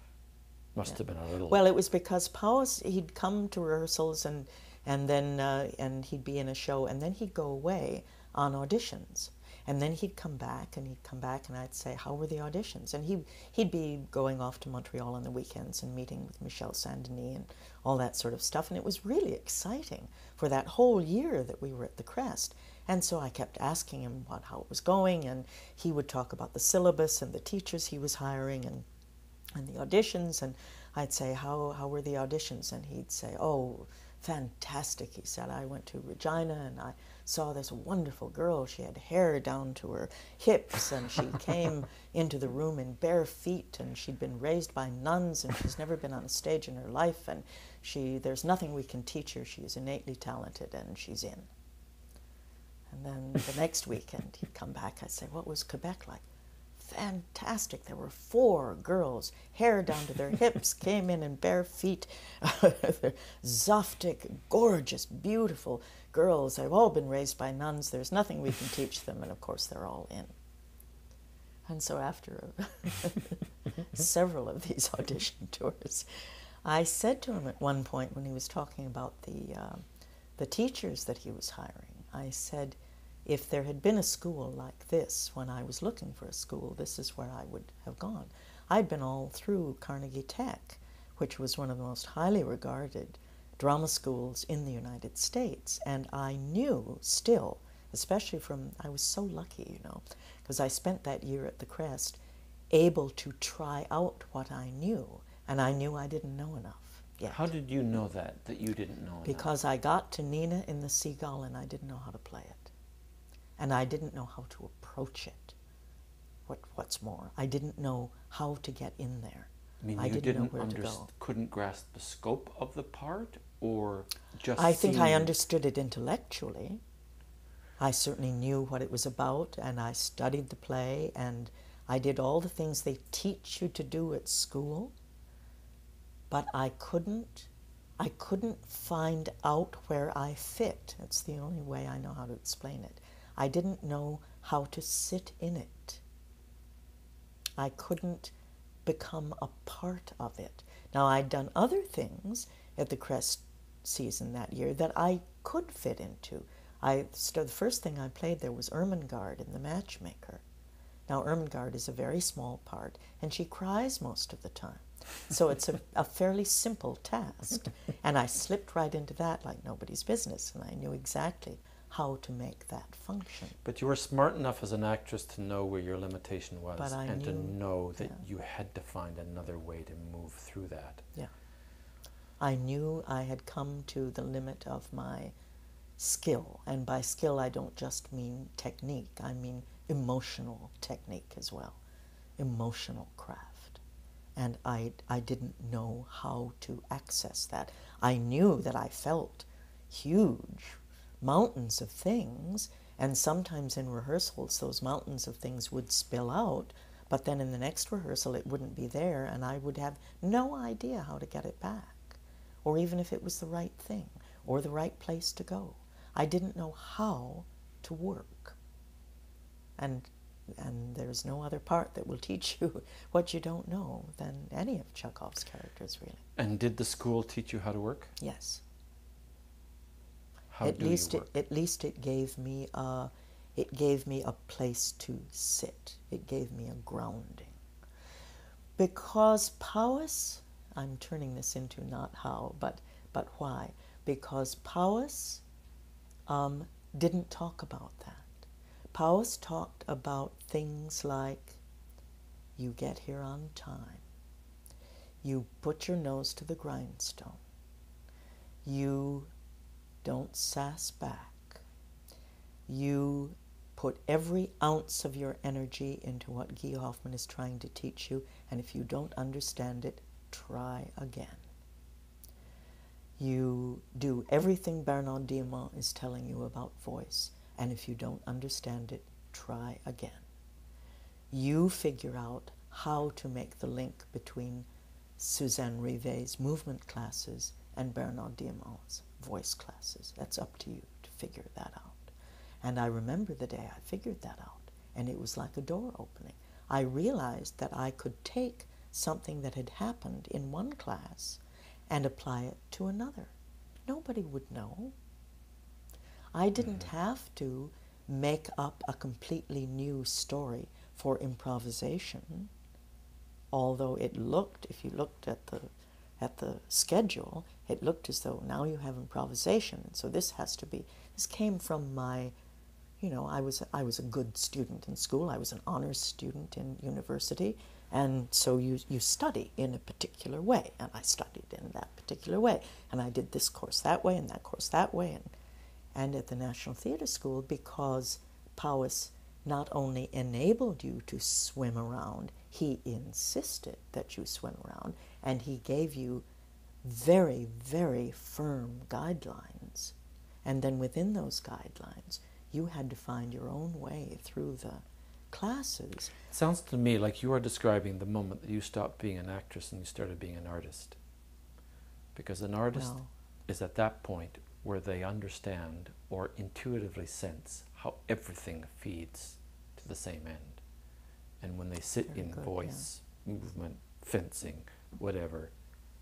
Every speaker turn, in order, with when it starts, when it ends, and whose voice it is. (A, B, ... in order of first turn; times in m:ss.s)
0:00.8-0:01.6 A
0:00.8-0:28.9 B
0:29.6-0:51.5 B
0:52.9-0:56.2 B
0:56.8-1:10.3 B
1:11.7-1:16.1 B
1:16.6-1:19.8 B
1:20.4-1:42.2 B
1:42.7-1:47.5 B
1:47.3-1:49.5 A
1:49.3-1:52.7 B
1:53.6-1:55.6 B
1:56.5-2:01.1 B
1:59.8-2:05.3 A
2:04.6-2:06.8 B
2:07.8-2:14.9 B
2:16.3-2:26.0 B
2:27.6-2:28.3 B
2:28.8-2:40.4 B
2:41.1-2:53.6 B
2:53.6-3:01.0 A
2:56.8-2:58.2 B
3:02.4-3:05.3 B
3:06.0-3:11.8 B
3:12.4-3:13.8 B
3:14.4-3:38.6 B
3:39.8-3:46.2 B
3:46.4-3:48.2 A
3:48.2-3:48.6 B
3:50.5-3:51.3 A
3:50.6-3:57.6 B
3:58.8-4:05.4 B
4:06.3-4:11.6 B
4:12.6-4:14.0 B
4:15.2-4:17.4 B
4:18.6-4:19.3 B
4:20.0-4:21.6 B
4:22.7-4:31.4 B
4:33.2-4:40.2 B
4:41.3-4:44.7 B
4:45.2-5:03.3 B
5:03.9-5:04.9 B
5:06.3-5:12.5 B
5:13.5-5:22.3 B
5:23.0-5:35.3 B
5:35.9-5:46.2 B
5:46.8-5:56.1 B
5:56.3-6:01.0 A
6:02.1-6:10.6 A
6:02.7-6:03.1 B
6:11.4-6:15.5 A
6:12.1-6:12.9 B